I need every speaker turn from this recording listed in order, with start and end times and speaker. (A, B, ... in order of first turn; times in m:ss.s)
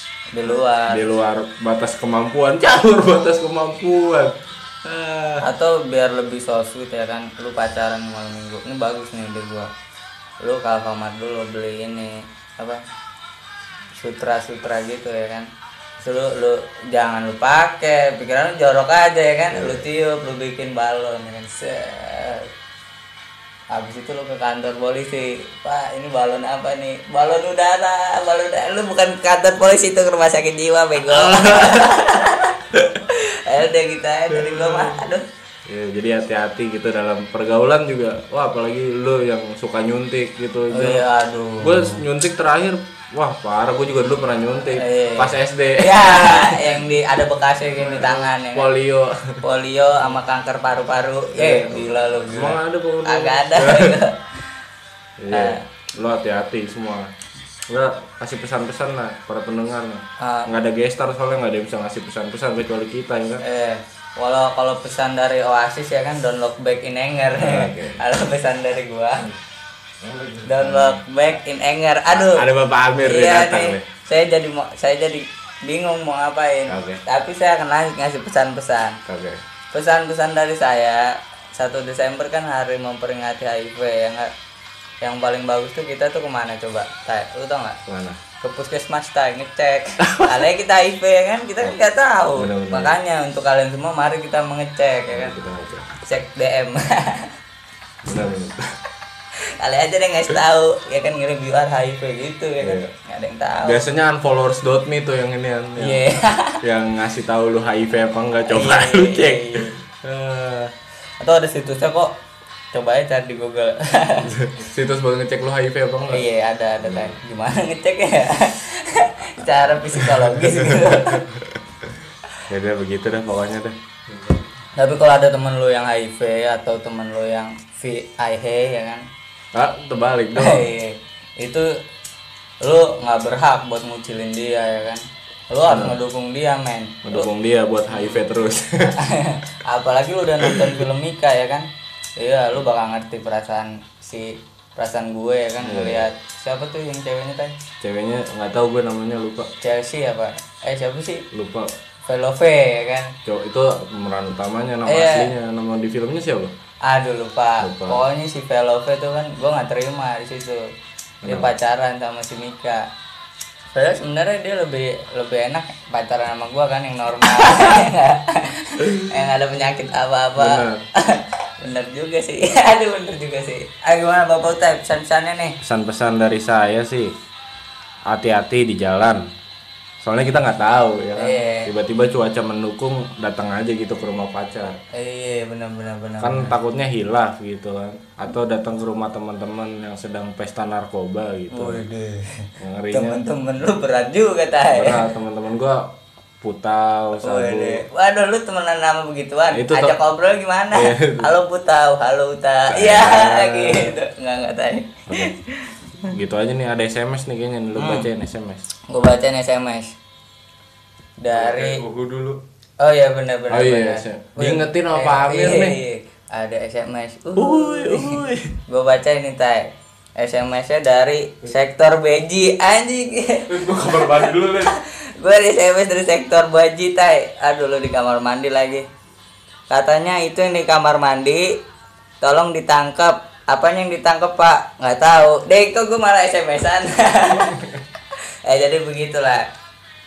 0:00.3-0:01.0 A
0:00.9-0:05.4 B
0:05.4-0:09.7 A
0:10.4-0:12.8 A
0:14.0-0:15.5 A
0:16.0-0:22.5 A
0:19.5-0:19.8 B
0:23.7-0:35.2 A
0:31.0-0:32.0 B
0:34.3-0:35.1 B
0:35.7-0:41.0 B
0:40.7-0:42.0 A
0:41.6-0:46.8 B
0:44.7-0:48.7 A
0:47.8-0:49.4 B
0:49.4-0:54.3 A
0:51.3-0:54.0 B
0:55.2-0:57.1 B
0:55.3-0:55.6 A
0:57.7-1:03.4 B
1:00.2-1:00.5 A
1:03.4-1:09.3 A
1:07.3-1:08.0 B
1:10.0-1:11.0 B
1:10.4-1:12.5 A
1:12.1-1:13.8 B
1:13.0-1:19.0 A
1:16.7-1:17.0 B
1:19.0-1:19.4 B
1:19.7-1:24.3 A
1:25.0-1:27.8 A
1:27.9-1:28.2 B
1:28.4-1:35.4 A
1:30.0-1:30.4 B
1:32.4-1:32.9 B
1:35.1-1:35.9 B
1:36.0-1:37.3 A
1:38.0-1:38.6 B
1:39.6-1:43.8 A
1:42.6-1:42.9 B
1:43.6-1:46.0 B
1:45.8-1:46.6 A
1:46.6-1:50.7 B
1:48.5-1:49.8 A
1:51.2-1:52.1 A
1:52.7-1:54.3 A
1:54.3-1:56.2 B
1:56.1-2:01.2 A
1:56.8-1:57.2 B
1:59.9-2:01.9 B
2:02.5-2:03.8 B
2:04.8-2:09.0 A
2:09.5-2:10.6 B
2:10.4-2:11.7 A
2:12.6-2:17.3 A
2:15.6-2:16.0 B
2:17.0-2:19.0 B
2:17.9-2:18.2 A
2:18.9-2:21.7 A
2:20.4-2:20.7 B
2:22.2-2:27.6 A
2:25.6-2:26.1 B
2:27.8-2:29.5 B
2:29.6-2:31.3 A
2:31.3-2:31.7 B
2:32.0-2:33.2 A
2:33.2-2:36.5 B
2:34.8-2:35.3 A
2:36.8-2:40.6 A
2:37.6-2:38.0 B
2:41.2-2:41.5 B
2:41.2-2:42.8 A
2:43.7-2:55.6 A
2:48.8-2:49.2 B
2:50.4-2:50.8 B
2:55.6-2:57.1 B
2:58.1-2:59.2 B
3:00.0-3:04.8 B
3:01.2-3:01.7 A
3:04.9-3:06.5 A
3:06.2-3:11.8 B
3:11.5-3:15.1 A
3:12.6-3:13.2 B
3:14.7-3:17.8 B
3:17.2-3:25.8 A
3:19.5-3:20.0 B
3:20.7-3:21.3 B
3:22.7-3:24.0 B
3:26.0-3:28.6 B
3:27.8-3:28.1 A
3:28.9-3:29.9 A
3:31.2-3:31.8 A
3:31.3-3:32.4 B
3:32.8-3:48.8 A
3:33.5-3:35.8 B
3:37.3-3:38.5 B
3:43.5-3:44.7 B
3:49.7-3:51.5 A
3:52.2-3:57.7 A
3:58.5-3:59.4 A